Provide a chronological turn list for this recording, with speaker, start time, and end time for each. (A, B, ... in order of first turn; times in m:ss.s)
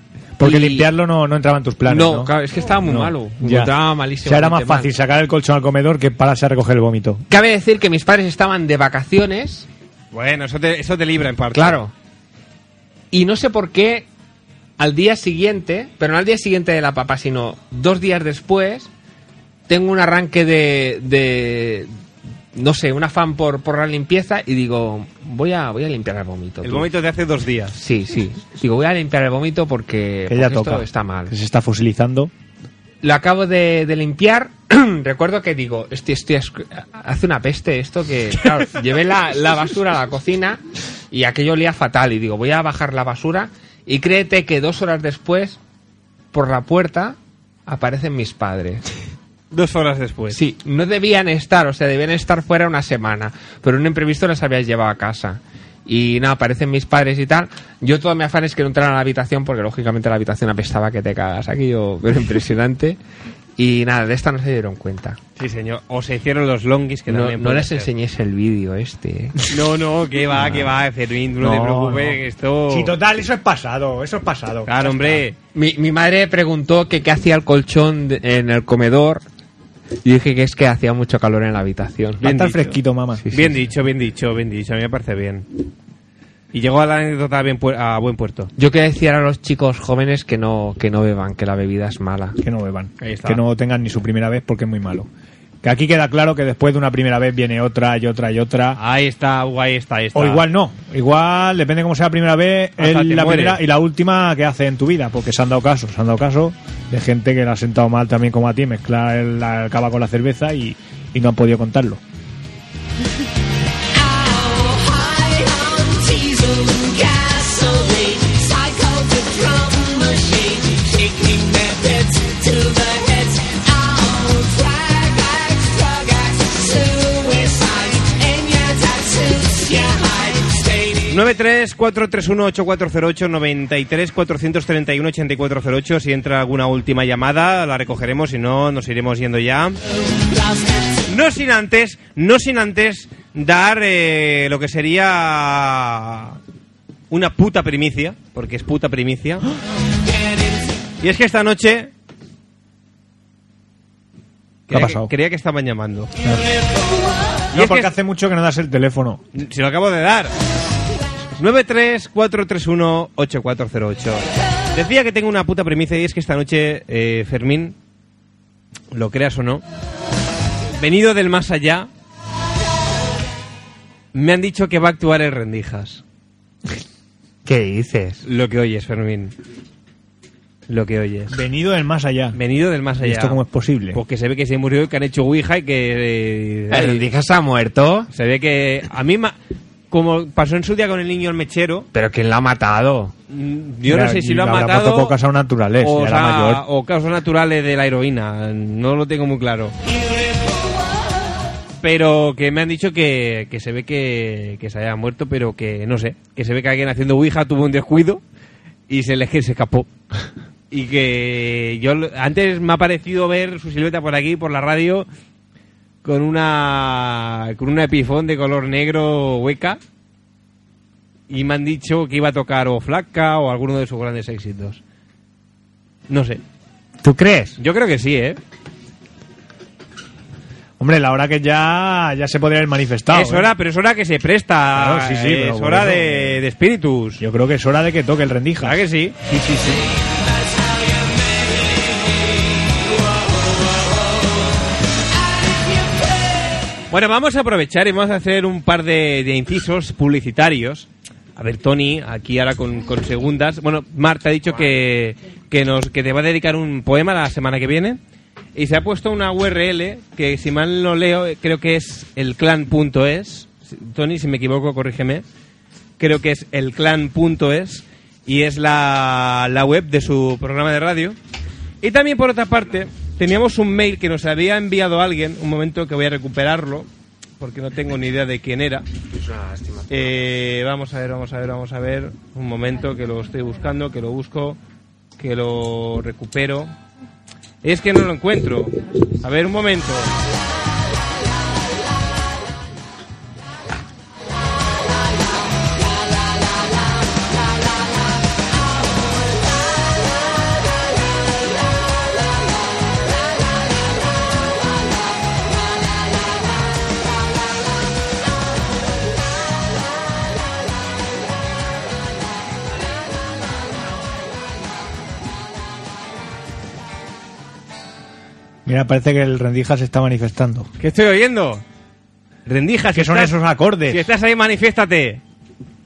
0:00.4-0:02.3 A
0:00.4-0:00.8 B
0:01.9-0:04.9 B
0:02.8-0:03.7 A
0:04.2-0:07.2 A
0:07.3-0:09.7 B
0:10.1-0:11.8 C
0:11.5-0:11.9 B
0:13.1-0:14.1 B
0:14.8-0:18.9 B
0:19.7-0:21.9 B
0:22.5-0:26.9 B
0:26.6-0:27.8 C
0:27.8-0:31.3 B
0:30.3-0:32.3 A
0:33.0-0:40.6 B
0:41.1-0:45.6 B
0:46.3-0:48.8 B
0:49.5-0:50.4 C
0:50.3-1:03.0 B
1:03.6-1:05.2 B
1:05.4-1:07.9 C
1:07.1-1:09.4 B
1:09.5-1:12.9 C
1:11.4-1:15.2 A
1:14.7-1:15.4 C
1:15.5-1:19.2 B
1:20.0-1:22.2 B
1:22.2-1:23.2 A
1:22.2-1:22.8 C
1:23.3-1:25.4 C
1:26.5-1:28.5 C
1:28.6-1:32.4 B
1:32.4-1:35.1 A
1:33.0-1:33.4 C
1:35.6-1:38.8 A
1:38.8-1:40.4 C
1:40.1-1:52.0 A
1:42.8-1:43.6 C
2:11.1-2:19.8 C
2:21.1-2:26.4 C
2:27.1-2:29.4 C
2:31.0-2:31.9 C
2:34.7-2:36.1 C
2:34.7-2:35.1 A
2:37.5-2:39.2 A
2:37.5-2:37.9 C
2:39.3-2:40.3 C
2:41.4-2:47.8 C
2:48.9-2:49.6 C
2:50.8-2:51.9 C
2:54.1-2:56.0 C
2:57.4-2:58.2 B
2:58.2-2:59.3 C
3:00.7-3:01.4 C
3:01.3-3:02.4 A
3:02.3-3:03.4 C
3:03.0-3:04.0 A
3:03.9-3:07.0 C
3:06.7-3:08.1 B
3:08.1-3:09.4 C
3:09.9-3:11.9 C
3:11.9-3:13.1 B
3:13.3-3:15.1 C
3:13.9-3:16.6 A
3:15.8-3:19.7 C
3:21.8-3:28.2 C
3:28.9-3:29.9 C
3:30.7-3:35.1 C
3:36.0-3:39.8 C
3:41.3-3:44.8 C
3:46.1-3:46.4 C
3:47.0-3:47.6 B
3:47.6-3:48.4 C
3:50.8-3:53.5 A
3:53.1-3:57.2 C
3:54.7-3:56.4 A
3:57.2-3:58.8 A
3:58.6-3:59.1 C
3:59.3-3:59.8 A
4:06.9-4:18.0 C
4:18.5-4:25.2 C
4:26.0-4:31.2 C
4:31.8-4:36.9 C
4:37.4-4:38.8 C
4:39.1-4:40.2 B
4:39.9-4:44.6 C
4:45.2-4:46.7 C
4:47.6-4:50.1 C
5:18.6-5:20.7 A
5:20.8-5:21.6 C
5:22.4-5:23.3 C
5:22.9-5:24.0 A
5:23.9-5:25.2 C